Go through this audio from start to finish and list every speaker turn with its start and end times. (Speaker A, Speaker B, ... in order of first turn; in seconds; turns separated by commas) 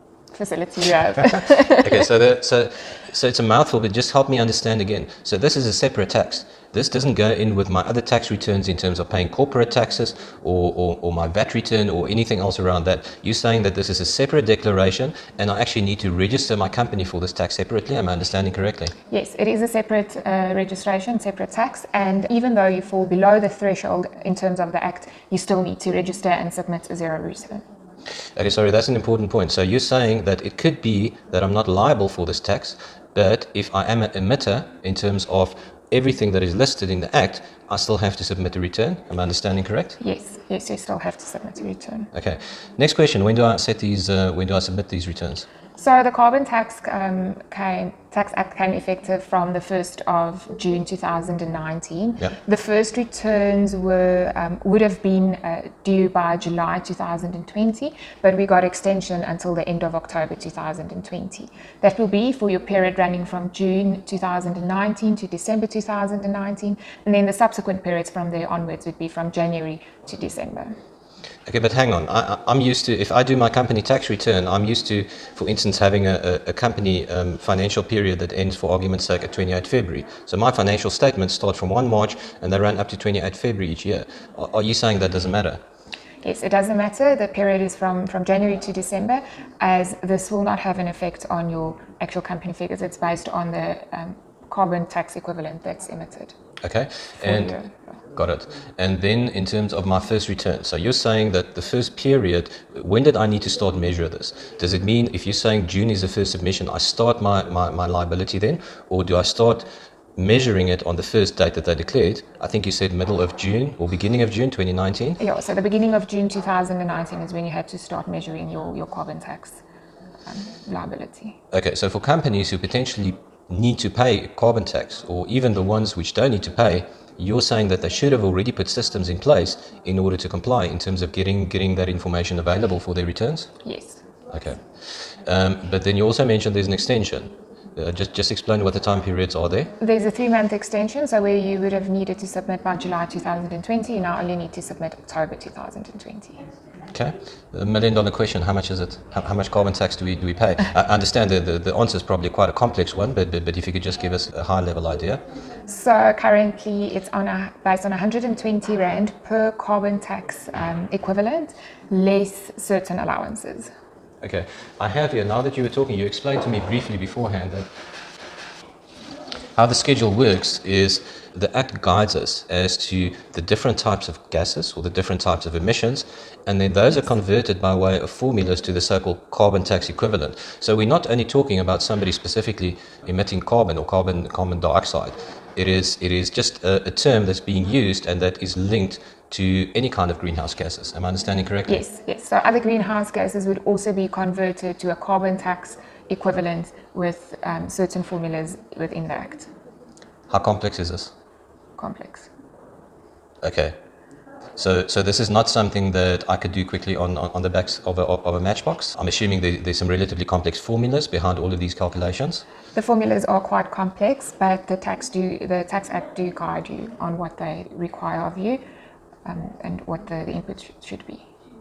Speaker A: 0.3-2.0, Speaker B: 1.8-18.9, Speaker A: 19.1-27.6, Speaker B: 28.4-40.0, Speaker A: 40.0-42.1, Speaker B: 42.1-45.5, Speaker A: 45.8-70.8, Speaker B: 71.5-85.6, Speaker A: 86.2-96.3, Speaker B: 96.6-97.5, Speaker A: 97.2-97.8, Speaker B: 98.2-109.7, Speaker B: 110.2-115.2, Speaker A: 115.2-119.6, Speaker A: 120.3-121.4, Speaker B: 121.5-133.5, Speaker A: 133.6-134.0, Speaker B: 134.3-139.7, Speaker A: 139.8-146.4, Speaker B: 146.9-155.2, Speaker A: 155.7-163.7, Speaker B: 164.2-167.7, Speaker B: 169.6-191.8, Speaker A: 191.7-199.5, Speaker B: 200.3-201.1, Speaker A: 201.8-202.3, Speaker B: 203.4-203.8, Speaker B: 204.6-212.4, Speaker A: 212.7-218.6, Speaker A: 219.2-221.3